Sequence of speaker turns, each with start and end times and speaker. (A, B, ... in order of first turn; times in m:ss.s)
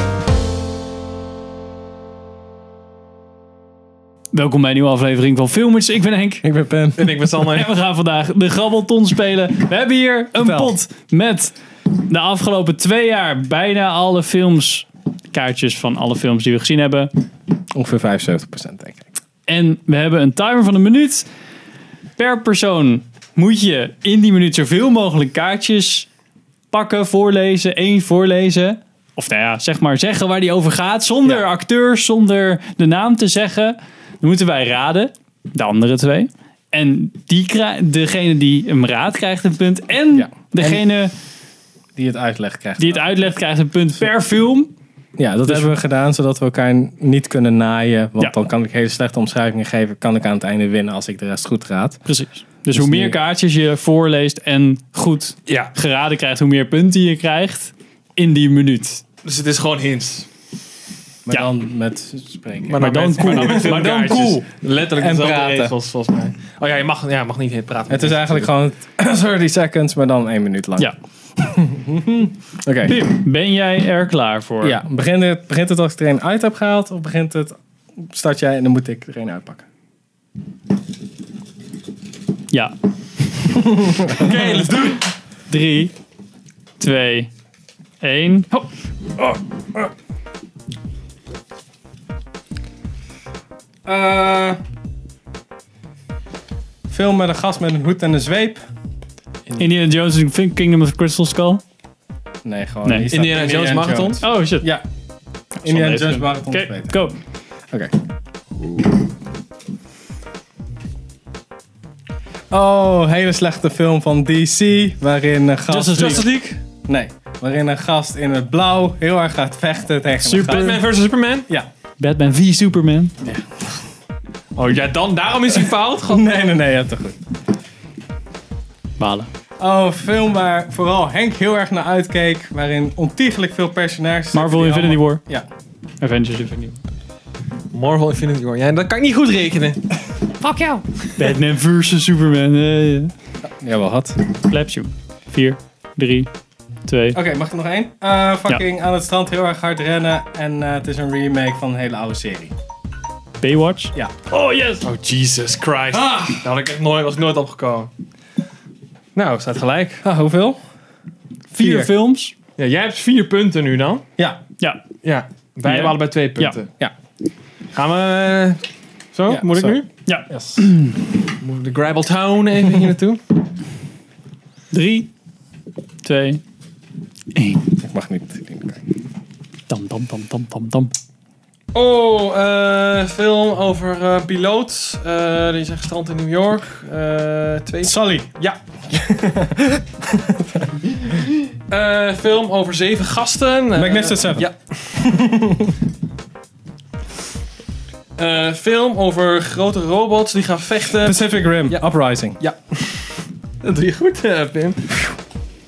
0:04.3-0:06.5 A
0:06.4-0:07.1 B
0:07.0-0:07.7 C
0:07.4-0:17.1 A
0:10.4-0:10.7 B
0:17.7-0:19.0 B
0:19.5-0:21.2 A
0:22.2-0:26.1 A
0:26.7-0:41.1 A
0:40.1-0:40.8 B
0:42.0-0:43.1 B
0:42.8-0:44.7 A
0:45.2-0:52.0 B
0:45.4-0:45.7 A
0:52.0-0:59.0 A
0:52.7-0:53.2 B
0:55.5-0:55.7 C
0:59.2-1:00.3 C
1:01.2-1:04.4 B
1:02.7-1:08.5 C
1:02.7-1:04.4 A
1:05.0-1:05.7 B
1:07.9-1:13.1 B
1:12.8-1:14.8 A
1:14.6-1:19.6 B
1:23.5-1:24.4 B
1:24.1-1:25.1 C
1:25.5-1:25.9 A
1:26.8-1:27.3 A
1:28.0-1:28.7 A
1:33.8-1:34.6 B
1:36.9-1:38.6 B
1:39.6-1:41.6 A
1:42.4-1:44.8 B
1:42.8-1:43.1 A
1:43.0-1:44.2 C
1:44.2-1:44.7 A
1:45.6-1:46.9 B
1:45.6-1:47.2 A
1:48.6-1:49.0 C
1:52.5-2:00.8 B
1:55.7-1:56.3 A
1:55.9-1:56.6 C
2:00.3-2:00.8 A
2:00.3-2:01.5 C
2:02.0-2:03.1 A
2:04.6-2:06.3 C
2:06.1-2:07.2 B
2:09.0-2:09.3 A
2:09.6-2:15.4 B
2:14.3-2:15.2 A
2:16.0-2:16.8 A
2:17.7-2:21.0 C
2:21.2-2:23.1 A
2:23.4-2:24.2 B
2:24.4-2:26.3 A
2:26.9-2:27.2 A
2:27.1-2:32.5 B
2:33.4-2:34.8 A
2:34.8-2:37.9 C
2:39.1-2:40.0 C
2:40.0-2:40.6 B
2:41.5-2:42.3 A
2:41.5-2:41.9 B
2:42.6-2:44.0 C
2:45.0-2:46.7 C
2:45.6-2:46.6 A
2:47.7-2:48.6 C
2:49.1-2:49.9 C
2:49.3-2:50.7 B
2:50.0-2:51.0 A
2:51.4-2:53.2 C
2:54.7-2:55.1 A
2:56.0-2:56.4 A
2:57.3-2:57.7 A
2:57.8-2:58.8 B
2:59.7-3:00.9 A
3:01.7-3:08.6 C
3:07.8-3:08.3 B
3:08.9-3:10.8 B
3:11.7-3:14.6 C
3:13.7-3:15.8 B
3:18.2-3:21.8 C
3:21.0-3:22.4 B
3:22.4-3:25.1 C